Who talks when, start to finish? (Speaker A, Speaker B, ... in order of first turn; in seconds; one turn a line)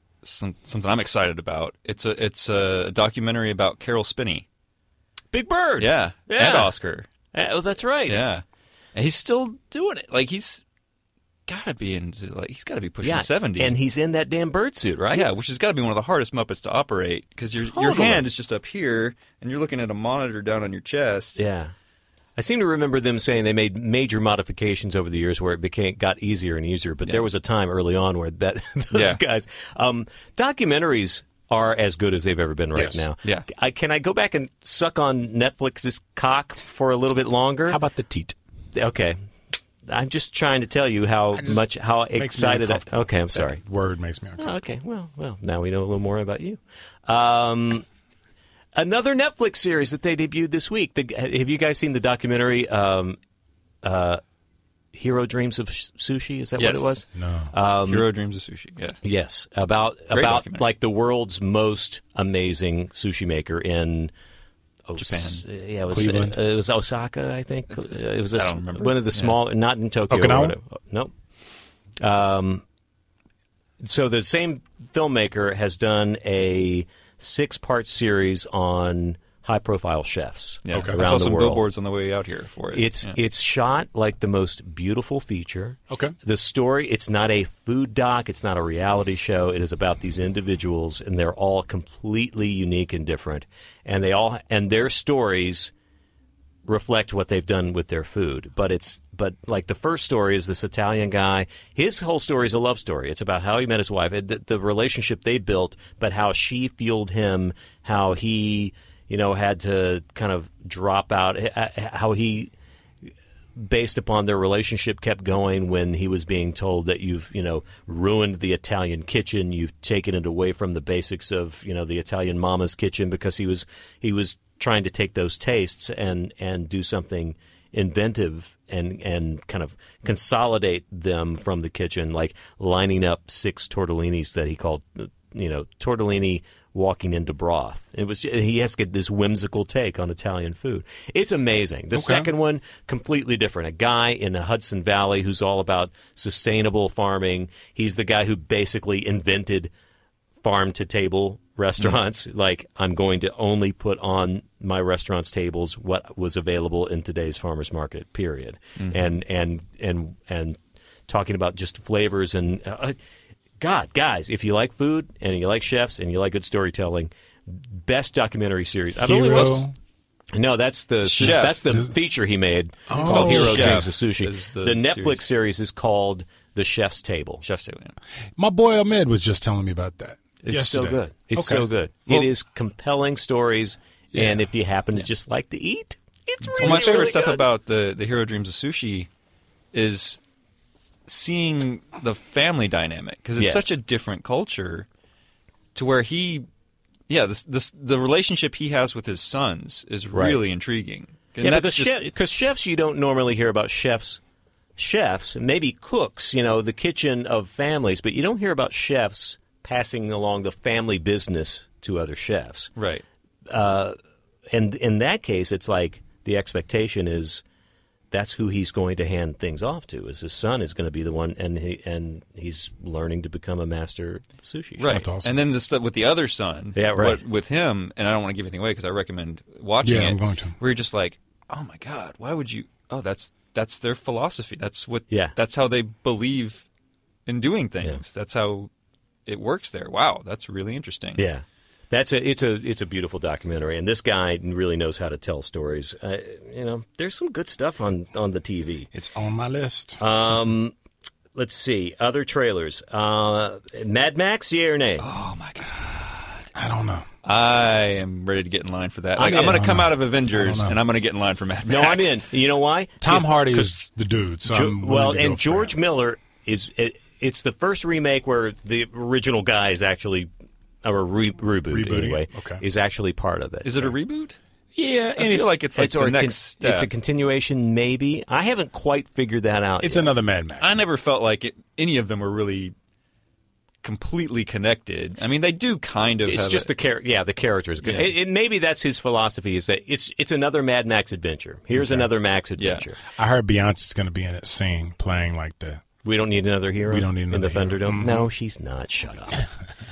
Speaker A: 0.2-4.5
Speaker B: 5.3-6.7
Speaker A: 5.8-7.1
Speaker B: 7.3-8.2
Speaker A: 8.1-10.6
Speaker A: 11.5-13.7
Speaker B: 13.0-15.3
Speaker A: 15.1-21.4
Speaker B: 17.6-18.2
Speaker B: 21.4-21.7
Speaker B: 22.4-37.8
Speaker A: 28.9-29.2
Speaker C: 32.8-33.0
Speaker C: 37.7-38.4
Speaker B: 38.7-39.2
Speaker B: 39.9-43.6
Speaker C: 41.3-44.5
Speaker B: 44.4-47.9
Speaker B: 48.8-53.2
Speaker B: 53.8-54.2
Speaker B: 54.9-58.0
Speaker A: 56.6-57.0
Speaker C: 57.1-57.5
Speaker A: 57.9-59.0
Speaker B: 59.0-64.1
Speaker A: 60.1-60.7
Speaker B: 64.9-71.1
Speaker A: 65.0-65.4
Speaker C: 65.9-66.4
Speaker A: 67.8-69.4
Speaker C: 70.1-70.6
Speaker B: 72.0-72.6
Speaker B: 73.8-81.7
Speaker A: 80.7-83.2
Speaker C: 80.7-81.0
Speaker B: 82.7-95.7
Speaker B: 96.7-112.5
Speaker B: 113.6-149.7
Speaker C: 141.9-142.3
Speaker B: 150.4-163.0
Speaker A: 158.8-159.0
Speaker B: 163.6-169.7
Speaker C: 169.0-169.7
Speaker B: 170.3-177.4
Speaker A: 171.1-171.6
Speaker C: 171.2-171.9
Speaker C: 172.9-173.9
Speaker A: 173.0-175.2
Speaker A: 177.4-178.0
Speaker C: 178.4-181.7
Speaker B: 180.4-187.4
Speaker C: 184.1-184.5
Speaker A: 186.6-189.1
Speaker A: 189.7-190.2
Speaker A: 191.1-194.9
Speaker B: 193.4-193.7
Speaker A: 195.8-196.5
Speaker A: 197.1-201.9
Speaker B: 200.1-200.4
Speaker B: 201.4-204.2
Speaker B: 204.8-212.7
Speaker A: 212.8-213.0
Speaker B: 213.5-214.0
Speaker B: 214.5-217.4
Speaker B: 218.1-225.0
Speaker A: 224.8-236.7
Speaker C: 224.9-225.4
Speaker B: 226.8-227.2
Speaker C: 229.8-230.6
Speaker A: 237.3-238.7
Speaker A: 239.3-241.2
Speaker B: 241.2-248.9
Speaker C: 248.9-250.0
Speaker B: 250.0-250.7
Speaker B: 251.3-255.1
Speaker A: 255.0-256.3
Speaker C: 256.6-257.1
Speaker A: 257.2-262.2
Speaker B: 259.2-259.6
Speaker C: 259.3-260.8
Speaker B: 261.7-263.7
Speaker C: 263.0-265.7
Speaker B: 264.4-270.3
Speaker B: 270.8-273.9
Speaker C: 271.7-272.6
Speaker A: 273.6-274.4
Speaker C: 274.8-275.5
Speaker A: 275.2-276.9
Speaker B: 275.8-280.1
Speaker C: 279.8-280.8
Speaker A: 280.6-282.7
Speaker A: 283.8-286.7
Speaker B: 286.2-293.0
Speaker A: 287.8-288.1
Speaker C: 291.7-292.1
Speaker A: 292.6-292.9
Speaker C: 293.2-295.8
Speaker B: 296.0-299.5
Speaker C: 296.9-298.3